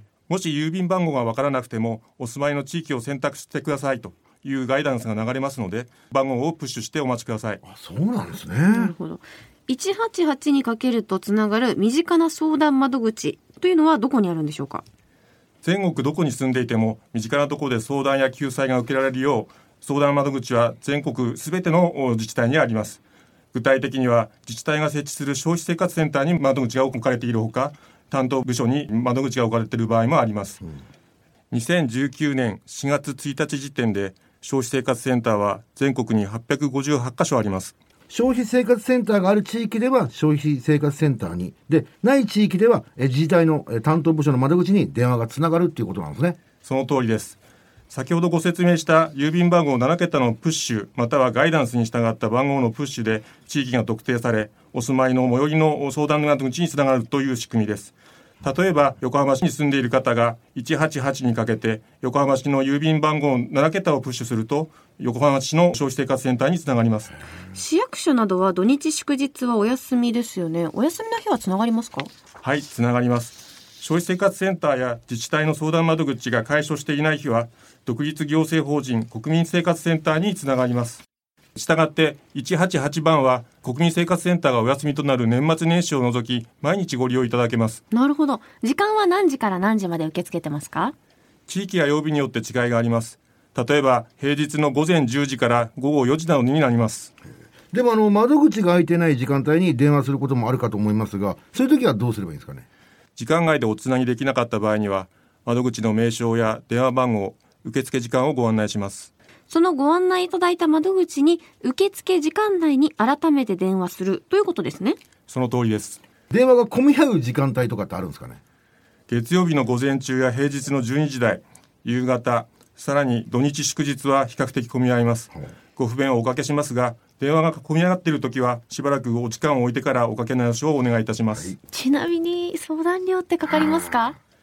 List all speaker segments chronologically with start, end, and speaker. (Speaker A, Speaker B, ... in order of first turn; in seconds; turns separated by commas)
Speaker A: 0.3-7.6, Speaker B: 7.6-8.9, Speaker C: 8.7-14.8, Speaker A: 15.6-23.0, Speaker A: 23.5-30.6, Speaker A: 31.5-37.7, Speaker B: 38.1-46.4, Speaker A: 46.6-47.4, Speaker A: 47.9-67.2, Speaker C: 67.5-72.1, Speaker A: 72.4-81.0, Speaker A: 81.5-87.8, Speaker C: 87.9-90.9, Speaker A: 91.5-97.1, Speaker B: 97.7-102.7, Speaker A: 103.2-109.1, Speaker C: 109.5-115.0, Speaker A: 115.3-116.0, Speaker B: 116.3-118.4, Speaker A: 119.1-131.6, Speaker C: 131.7-134.2